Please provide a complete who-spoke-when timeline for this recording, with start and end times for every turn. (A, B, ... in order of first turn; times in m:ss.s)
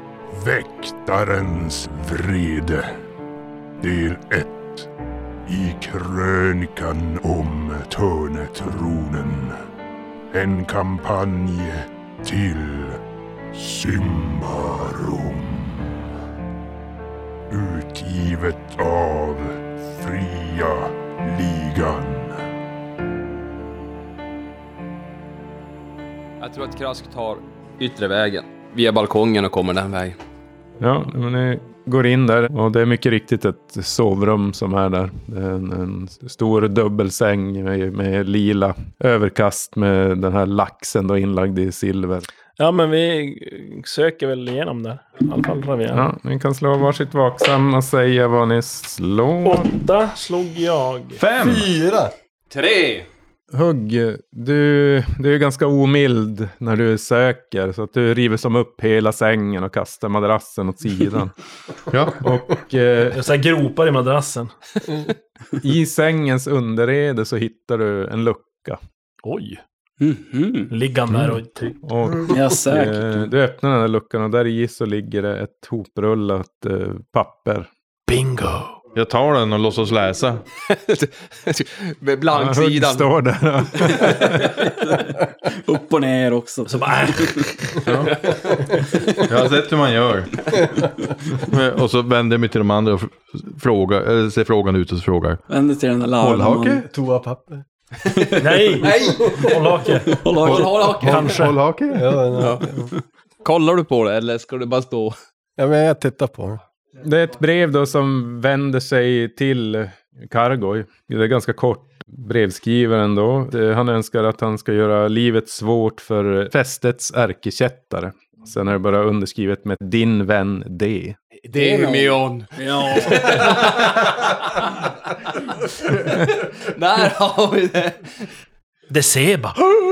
0:00.3-0:02.9 A
0:03.8-0:04.9 A
0:05.5-0:09.5 A
0:10.3-0:13.0 A
0:13.5-0:16.1 A
0:17.5-0:22.4 A
0:26.4-0:30.2 B
0:30.8-0:42.3 C
0:42.6-0:46.0 D
0:45.9-0:49.7 C
0:49.4-0:51.2 D
0:51.2-0:51.7 E
0:51.4-0:52.1 F
0:52.5-0:53.1 B
0:53.5-1:01.3 C
1:01.9-1:02.2 E
1:02.2-1:03.2 C
1:03.1-1:04.5 D
1:05.6-1:08.8 C
1:09.2-1:09.6 D
1:10.0-1:10.7 G
1:10.7-1:11.8 D
1:11.8-1:17.7 C
1:12.3-1:13.3 G
1:18.1-1:18.8 D
1:18.9-1:20.4 E
1:20.7-1:23.1 B
1:22.3-1:24.5 C
1:23.7-1:24.3 B
1:24.8-1:25.1 G
1:25.6-1:27.3 G
1:26.7-1:27.7 D
1:27.8-1:28.2 E
1:29.2-1:30.3 E
1:31.4-1:35.4 E
1:35.5-1:36.8 G
1:36.2-1:36.8 E
1:36.9-1:37.6 F
1:38.4-1:41.6 D
1:38.8-1:39.3 B
1:38.9-1:39.5 F
1:40.1-1:41.2 G
1:40.4-1:42.2 E
1:40.4-1:41.3 B
1:41.9-1:42.9 F
1:42.4-1:42.6 B
1:43.4-1:45.1 B
1:45.6-1:46.6 F
1:47.0-2:01.2 C
2:01.5-2:04.8 B
2:01.5-2:03.6 G
2:05.8-2:08.1 B
2:08.9-2:09.6 D